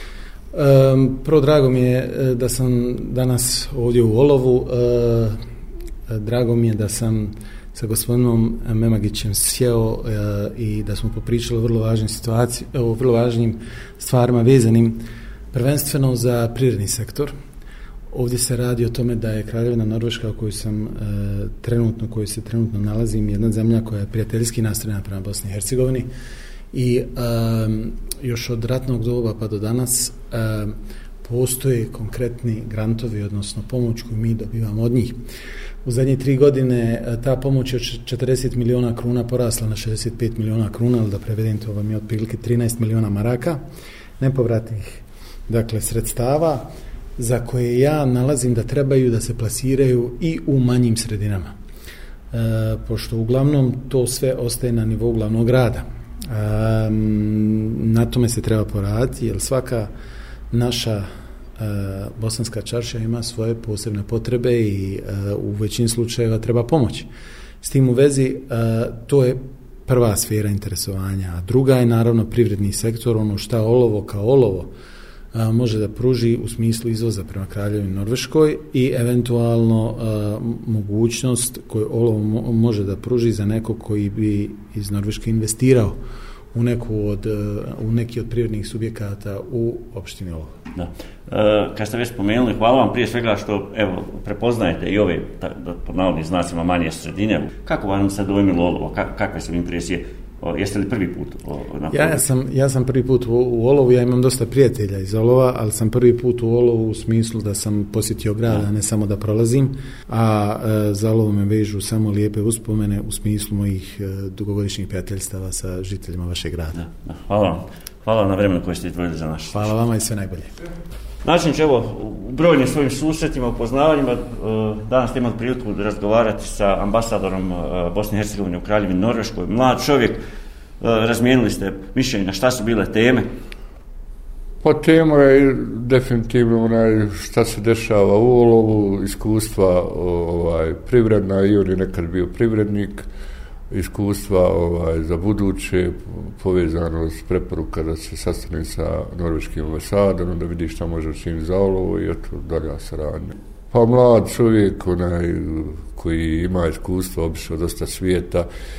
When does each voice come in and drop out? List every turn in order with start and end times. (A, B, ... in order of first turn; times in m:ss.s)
0:00.5-0:05.4 A
0:06.1-0:15.0 A
0:15.5-0:17.3 A
0:18.1-0:26.1 A
0:26.7-0:35.2 A
0:35.8-0:43.6 A
0:44.2-0:51.5 A
0:52.3-0:59.9 A
1:00.5-1:01.0 A
1:01.6-1:07.1 A
1:07.6-1:14.7 A
1:15.3-1:26.0 A
1:26.5-1:30.5 A
1:30.8-1:42.3 B
1:41.9-1:56.8 A
1:56.8-1:59.7 B
1:59.5-2:00.5 A
2:01.2-2:10.2 B
2:10.8-2:13.3 B
2:14.6-2:23.1 C
2:23.7-2:38.5 C